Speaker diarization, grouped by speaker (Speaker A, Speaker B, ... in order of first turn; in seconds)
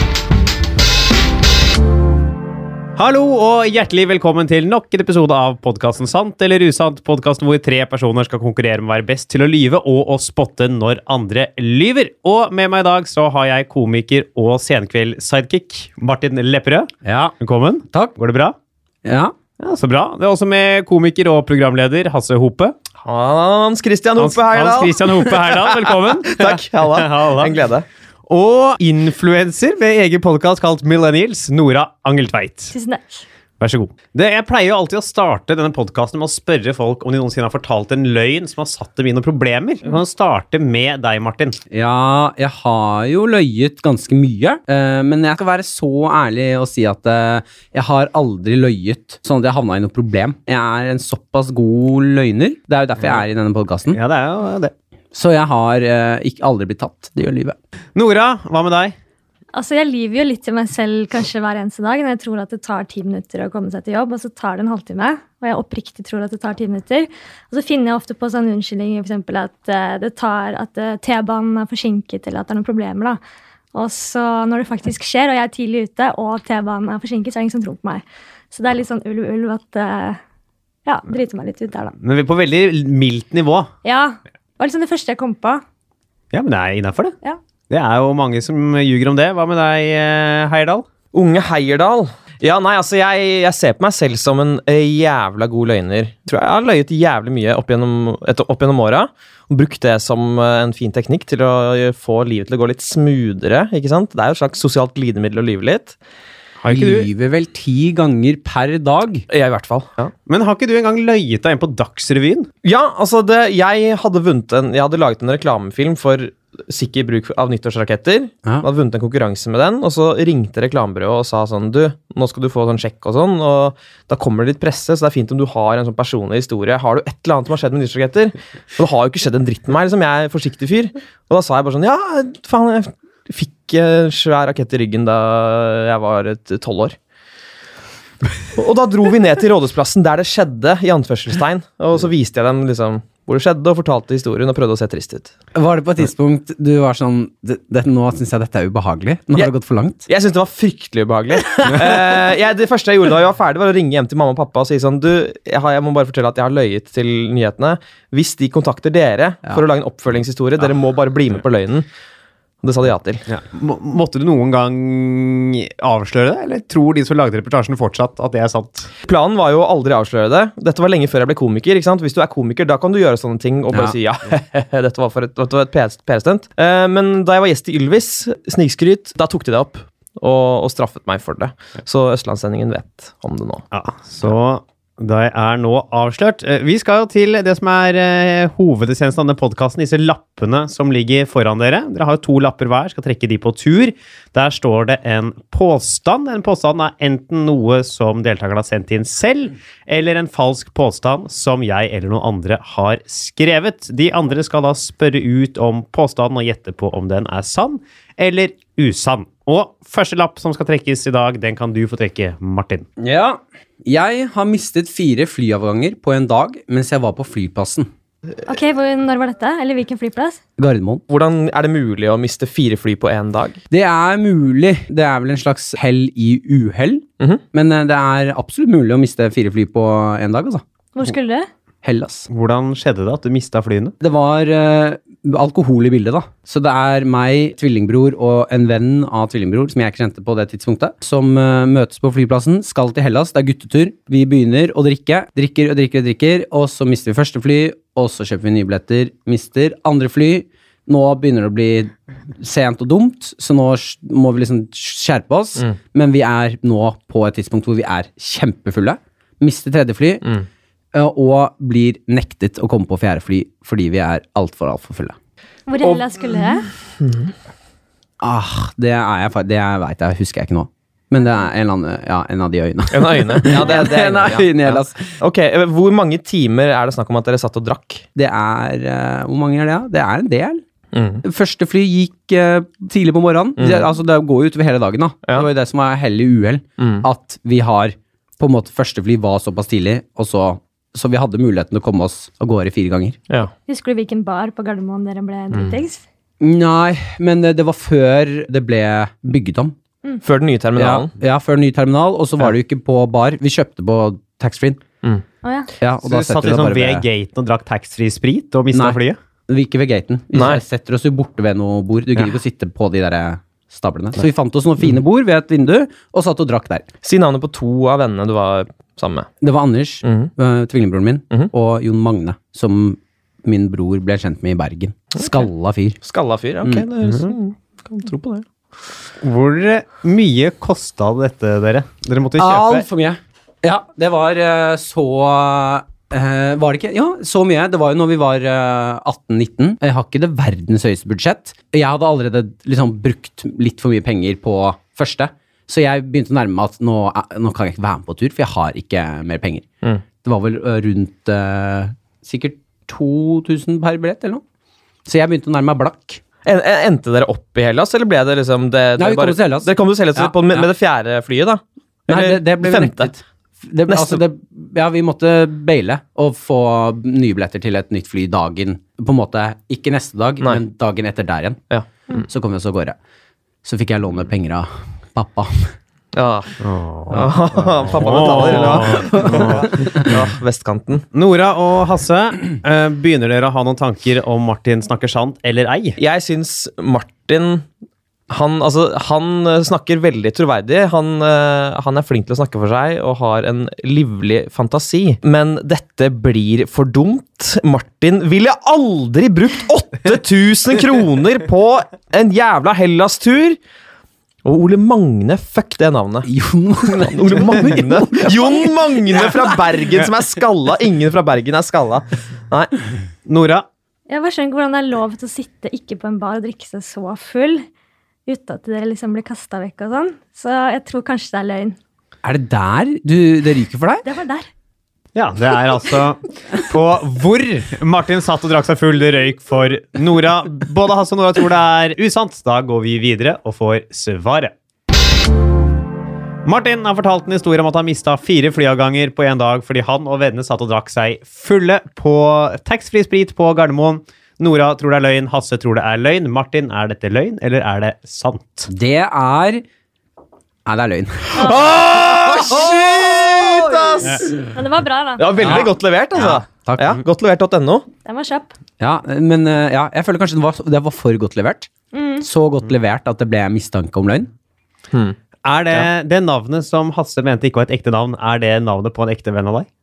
Speaker A: 3.0-18.5, 19.6-22.8, 24.2-27.6, 28.3-32.7, 33.6-41.6, 53.9-54.7, 58.0-59.0, 82.0-83.7, 86.3-87.2, 87.7-90.8, 106.6-107.1, 110.3-112.5, 163.3-168.9, 183.7-212.9, 232.3-233.9, 306.0-309.2, 329.2-332.9, 376.6-379.9, 381.1-386.0, 413.2-413.7, 425.1-434.5, 436.4-448.7, 454.0-454.3, 465.4-469.7
Speaker B: 17.0-17.3, 19.0-19.3, 41.7-54.0, 55.1-57.6, 106.7-109.3, 145.5-150.1, 151.3-152.2, 173.7-174.0, 213.0-217.9, 220.6-221.0, 223.7-230.6, 231.8-232.3, 234.0-260.3, 260.9-265.2, 268.2-275.1, 278.1-280.6, 281.2-293.2, 296.4-299.8, 300.8-304.8, 305.8-307.1, 308.7-316.9, 319.4-326.0, 326.6-326.9, 332.4-349.7, 350.2-354.4, 355.1-356.2, 359.0-360.7, 362.1-371.6, 372.2-373.0, 373.6-375.7, 378.2-380.0, 406.2-409.8, 422.2-424.1, 448.7-449.6, 450.6-454.3, 455.4-457.0, 458.8-461.7, 462.2-464.3
Speaker C: 23.0-27.9, 91.1-106.0, 109.3-110.1, 112.6-137.0, 138.5-145.3, 150.1-161.8, 162.6-163.2, 169.0-183.6, 221.1-223.6, 267.0-267.3, 272.9-278.1, 280.9-281.2, 283.6-283.9, 286.8-287.1, 300.2-301.1, 310.3-310.6, 317.0-319.3, 320.1-320.3, 326.0-328.4, 356.4-363.1, 363.9-364.2, 371.7-372.2, 376.1-376.6, 377.1-381.1, 386.0-387.7, 388.3-403.6, 404.4-406.3, 407.0-412.7, 451.4-454.4, 455.2-457.9, 464.9-465.2
Speaker D: 32.7-33.2, 59.5-73.2, 73.7-80.2, 80.8-82.0, 83.8-85.6, 218.4-220.4, 230.9-231.5, 265.7-266.7, 293.7-296.0, 305.4-305.7, 414.1-417.6, 418.2-421.8, 424.0-424.5, 454.5-455.3, 458.1-458.5, 461.9-462.2